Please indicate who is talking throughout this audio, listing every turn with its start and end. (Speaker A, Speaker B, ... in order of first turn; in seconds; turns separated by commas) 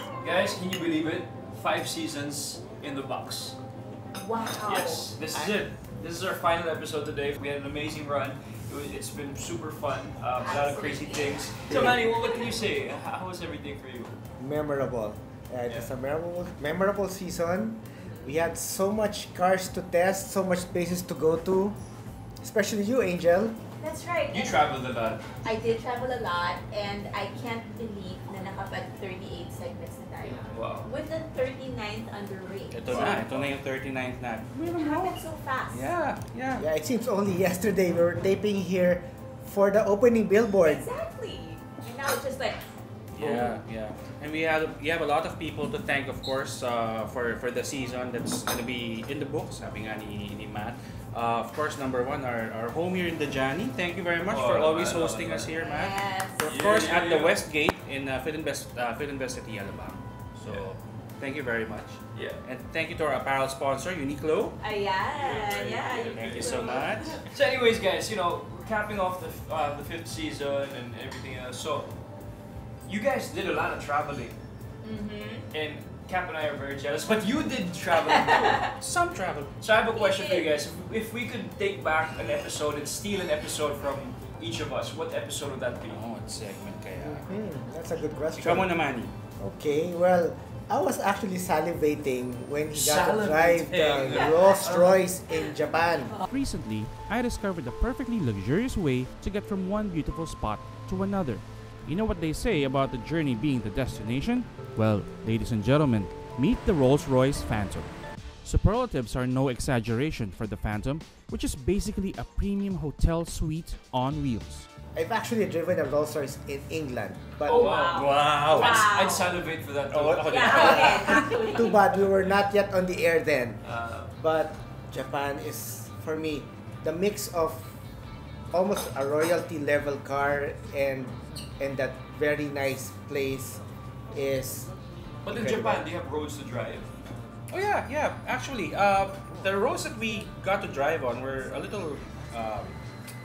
Speaker A: 0.2-3.6, Speaker B: 4.1-5.1, Speaker A: 4.7-14.2, Speaker B: 10.4-12.3, Speaker C: 11.7-12.0, Speaker C: 14.4-21.8, Speaker B: 18.0-18.4, Speaker C: 22.4-23.6, Speaker B: 23.8-24.6, Speaker A: 24.3-25.3, Speaker B: 25.4-33.2, Speaker A: 30.2-30.9, Speaker D: 32.7-35.2, Speaker A: 32.9-33.5, Speaker B: 34.7-35.9, Speaker D: 35.7-36.6, Speaker C: 36.6-40.9, Speaker B: 40.6-42.6, Speaker D: 43.1-64.6, Speaker B: 43.2-43.6, Speaker A: 54.3-55.5, Speaker B: 55.6-56.6, Speaker A: 56.4-57.4, Speaker A: 62.1-62.4, Speaker B: 64.6-67.2, Speaker A: 65.2-71.9, Speaker D: 65.4-67.2, Speaker A: 72.9-74.4, Speaker B: 74.8-75.5, Speaker A: 75.5-78.7, Speaker B: 78.1-78.7, Speaker D: 78.8-79.5, Speaker A: 79.6-86.0, Speaker B: 80.0-80.5, Speaker D: 85.9-87.3, Speaker C: 87.0-88.7, Speaker D: 88.4-89.1, Speaker C: 89.4-96.2, Speaker A: 92.7-95.1, Speaker B: 94.1-94.6, Speaker E: 96.3-114.7, Speaker C: 115.0-117.8, Speaker A: 117.5-121.2, Speaker B: 117.5-119.4, Speaker D: 117.9-119.0, Speaker D: 119.9-121.2, Speaker B: 120.3-121.8, Speaker C: 120.5-123.6, Speaker A: 123.6-124.1, Speaker C: 124.2-127.7, Speaker C: 128.5-134.7, Speaker A: 135.2-136.9, Speaker C: 135.3-135.8, Speaker D: 137.5-142.8